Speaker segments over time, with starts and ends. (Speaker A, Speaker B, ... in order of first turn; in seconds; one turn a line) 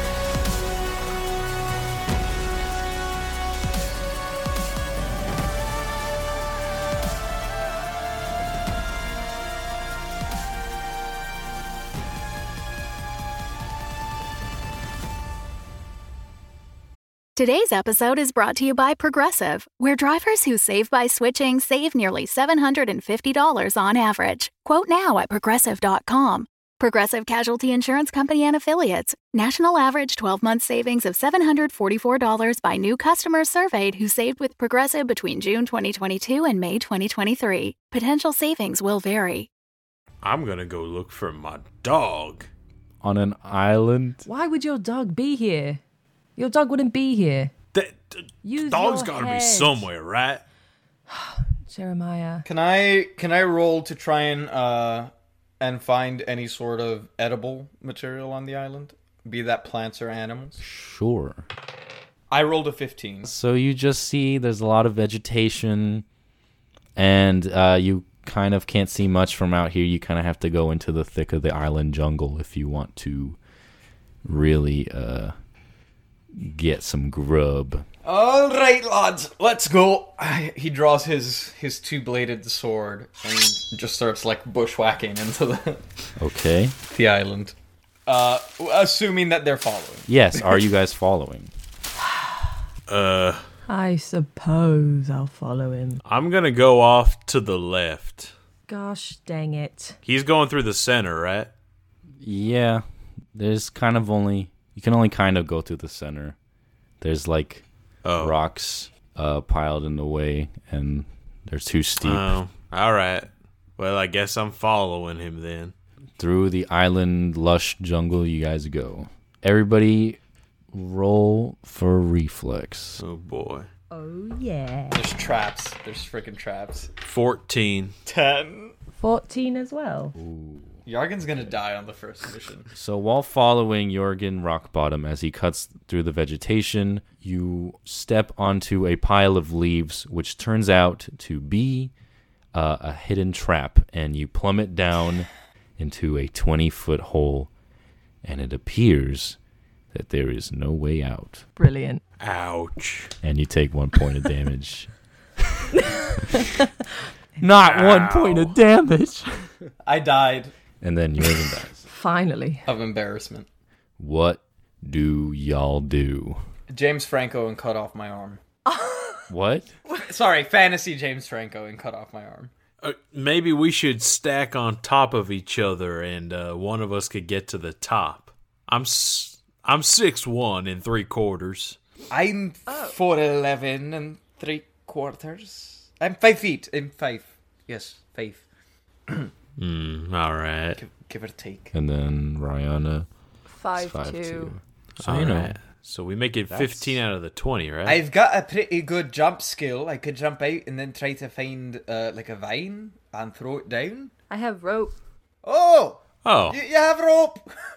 Speaker A: 17.4-39.5
Speaker B: 40.2-42.5
Speaker C: 43.0-44.2
Speaker D: 44.3-45.8
Speaker D: 46.4-47.5
Speaker B: 47.7-50.4
Speaker D: 48.4-49.9
Speaker D: 51.1-52.4
Speaker E: 52.5-60.6
Speaker C: 60.6-61.5
Speaker E: 62.3-63.3
Speaker C: 63.2-66.0
Speaker C: 67.0-73.4
Speaker C: 74.2-75.3
Speaker C: 76.3-77.9
Speaker E: 78.0-85.8
Speaker C: 86.2-86.8
Speaker E: 86.9-87.5
Speaker E: 88.1-90.1
Speaker C: 90.1-91.5
Speaker B: 92.9-93.4
Speaker D: 93.7-96.0
Speaker B: 96.0-98.3
Speaker D: 98.7-100.0
Speaker B: 100.0-101.5
Speaker C: 102.2-106.3
Speaker C: 107.0-107.7
Speaker B: 108.0-108.4
Speaker C: 108.2-112.4
Speaker B: 112.0-115.7
Speaker C: 116.2-120.2
Speaker C: 120.7-123.0
Speaker B: 123.0-123.7
Speaker D: 123.9-125.0
Speaker E: 124.9-126.9
Speaker B: 127.0-127.9
Speaker E: 128.1-128.7
Speaker D: 129.0-130.2
Speaker C: 130.2-130.8
Speaker E: 130.8-132.7
Speaker C: 132.7-141.9
Speaker C: 142.5-147.5
Speaker C: 148.2-149.4
Speaker C: 149.9-151.4
Speaker D: 151.6-152.0
Speaker B: 152.2-153.1
Speaker C: 153.2-155.7
Speaker D: 155.8-156.7
Speaker C: 157.4-159.5
Speaker B: 157.6-158.6
Speaker E: 159.8-160.5
Speaker C: 160.8-161.8
Speaker D: 161.9-162.7
Speaker E: 162.7-163.5
Speaker C: 164.0-166.4
Speaker E: 166.7-168.4
Speaker D: 168.7-169.2
Speaker C: 169.3-169.7
Speaker E: 170.0-172.5
Speaker B: 172.8-181.8
Speaker E: 182.1-188.4
Speaker D: 182.7-183.0
Speaker B: 189.6-190.8
Speaker E: 190.8-191.7
Speaker C: 191.7-193.1
Speaker D: 193.5-194.5
Speaker C: 193.8-195.5
Speaker B: 195.0-198.0
Speaker C: 196.5-196.9
Speaker E: 197.8-204.1
Speaker D: 204.3-205.0
Speaker E: 205.4-207.5
Speaker B: 206.2-206.6